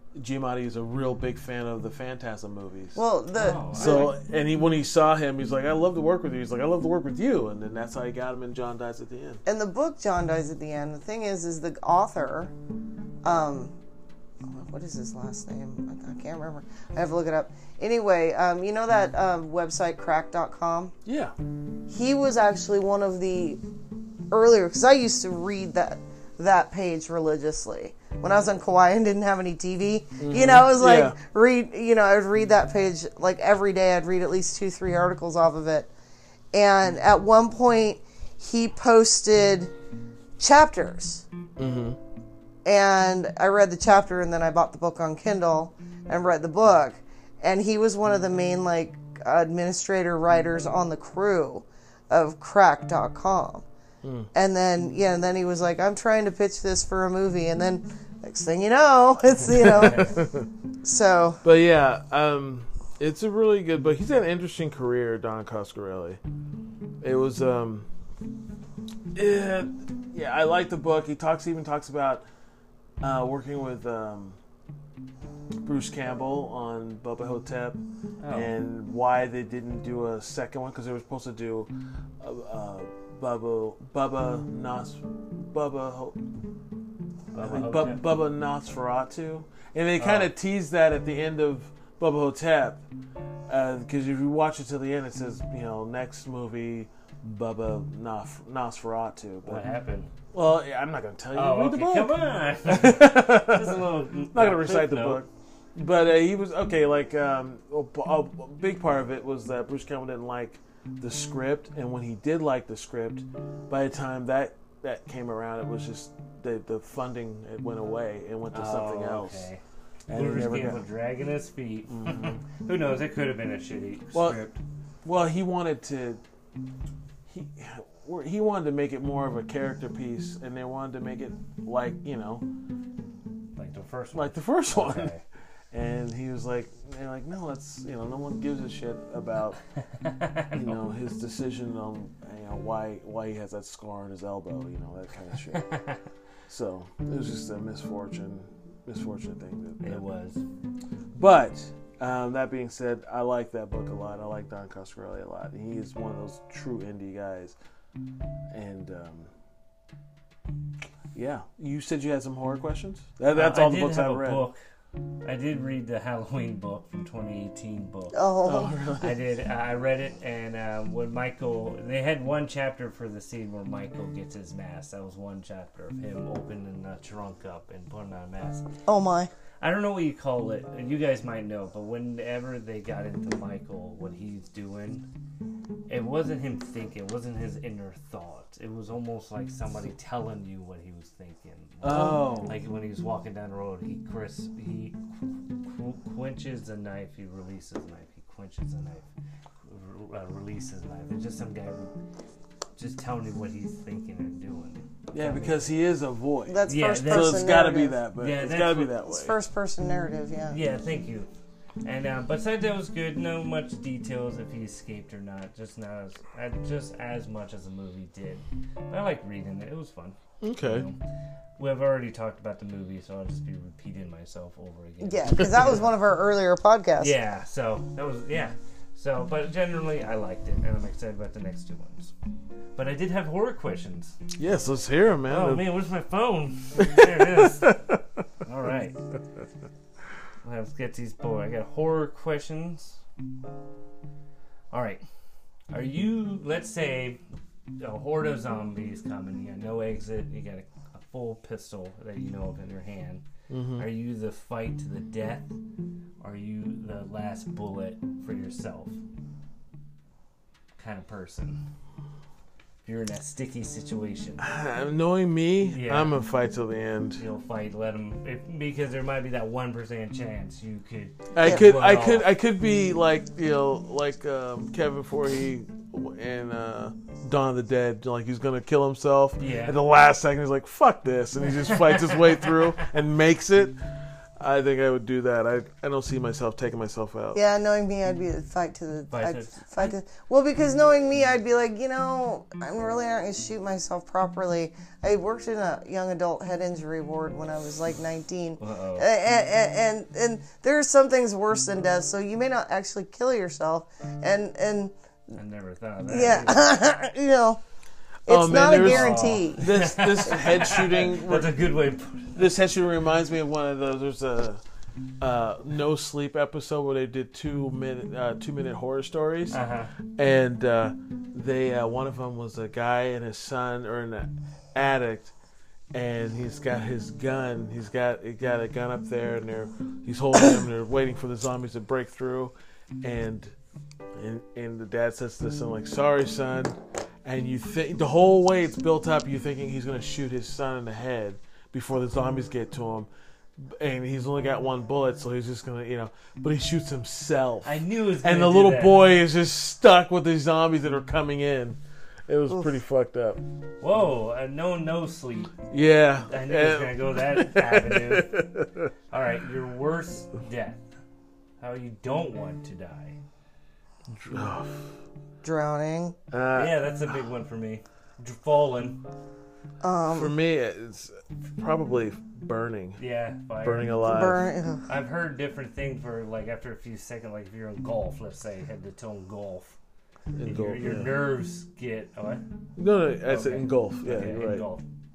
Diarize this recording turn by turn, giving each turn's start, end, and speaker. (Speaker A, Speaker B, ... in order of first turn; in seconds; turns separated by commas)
Speaker A: 0.1-3.0, Speaker B: 3.0-4.1, Speaker C: 3.4-4.1, Speaker A: 3.7-9.4, Speaker B: 9.5-12.5, Speaker B: 13.2-13.7, Speaker B: 14.4-20.9, Speaker A: 21.1-21.4, Speaker B: 21.9-23.6, Speaker B: 24.3-35.9, Speaker A: 30.2-31.2, Speaker B: 36.5-39.7, Speaker B: 40.4-41.2, Speaker A: 41.6-42.0, Speaker B: 42.6-53.6, Speaker A: 54.0-54.3, Speaker B: 54.3-60.2, Speaker A: 59.5-60.5, Speaker B: 60.8-61.4, Speaker A: 61.4-66.2, Speaker A: 67.0-67.9, Speaker A: 69.1-72.2, Speaker A: 73.0-74.4, Speaker A: 75.6-86.2, Speaker C: 78.2-78.5, Speaker C: 87.3-88.0, Speaker A: 87.4-92.8, Speaker C: 90.0-90.3, Speaker A: 93.5-99.6, Speaker C: 99.5-100.1, Speaker A: 100.3-119.5, Speaker C: 101.3-105.2, Speaker C: 118.5-124.6, Speaker A: 120.1-120.8, Speaker A: 121.9-122.4, Speaker A: 124.1-124.5, Speaker A: 125.0-126.2, Speaker A: 127.3-132.5, Speaker C: 133.6-135.2, Speaker A: 134.1-135.1, Speaker A: 135.7-139.6, Speaker C: 140.0-140.8, Speaker A: 140.5-145.7, Speaker C: 145.5-146.0, Speaker A: 146.5-150.0, Speaker C: 149.8-150.4, Speaker A: 151.1-157.6, Speaker A: 158.5-159.3, Speaker A: 161.1-164.5, Speaker C: 163.3-164.6, Speaker C: 165.2-168.2, Speaker B: 168.1-168.8, Speaker A: 168.4-169.2, Speaker C: 169.0-178.7, Speaker B: 178.9-179.3, Speaker C: 179.6-185.1, Speaker C: 185.9-199.1, Speaker A: 191.8-192.6, Speaker C: 199.7-201.9, Speaker C: 202.8-205.7, Speaker A: 205.1-209.4, Speaker B: 206.5-208.0, Speaker C: 206.7-207.7, Speaker C: 208.2-209.0, Speaker B: 209.1-210.6, Speaker C: 210.5-211.3, Speaker C: 211.8-221.0, Speaker A: 220.4-220.9, Speaker C: 221.6-225.9, Speaker B: 225.0-227.1, Speaker C: 227.0-232.1, Speaker C: 232.8-234.2, Speaker A: 234.4-235.7, Speaker C: 235.3-237.8, Speaker A: 236.9-237.9, Speaker C: 238.4-239.0, Speaker C: 240.4-243.0, Speaker C: 244.7-245.0, Speaker C: 245.7-247.2, Speaker C: 247.8-253.2, Speaker A: 253.5-253.9, Speaker C: 253.8-255.5, Speaker C: 256.2-259.0, Speaker C: 260.8-261.6, Speaker C: 262.9-264.4, Speaker A: 264.4-267.2, Speaker C: 265.7-266.1, Speaker C: 267.2-272.3, Speaker A: 271.3-283.8, Speaker C: 279.4-279.8, Speaker C: 281.5-282.8, Speaker A: 284.4-287.4, Speaker B: 287.3-304.9, Speaker C: 289.1-289.9, Speaker C: 298.6-299.1, Speaker C: 305.3-306.7, Speaker B: 306.1-307.6, Speaker B: 308.3-309.7, Speaker A: 308.3-311.6, Speaker C: 308.7-312.4, Speaker A: 312.4-314.6, Speaker A: 315.2-319.6, Speaker C: 319.5-319.9, Speaker A: 320.1-325.3, Speaker A: 325.9-333.6, Speaker A: 334.1-353.4, Speaker C: 347.6-349.1, Speaker C: 353.8-355.6, Speaker A: 355.7-358.9, Speaker C: 356.3-358.4, Speaker C: 359.1-360.8, Speaker C: 361.6-363.2, Speaker A: 364.1-364.9, Speaker B: 365.4-366.1, Speaker A: 366.3-366.8, Speaker C: 366.6-369.0, Speaker B: 369.8-370.3, Speaker A: 370.1-373.0, Speaker C: 373.0-374.4, Speaker A: 373.6-374.5, Speaker B: 374.0-374.8, Speaker C: 374.9-379.8, Speaker A: 380.3-381.1, Speaker C: 380.4-382.4, Speaker A: 382.8-384.7, Speaker C: 383.3-384.9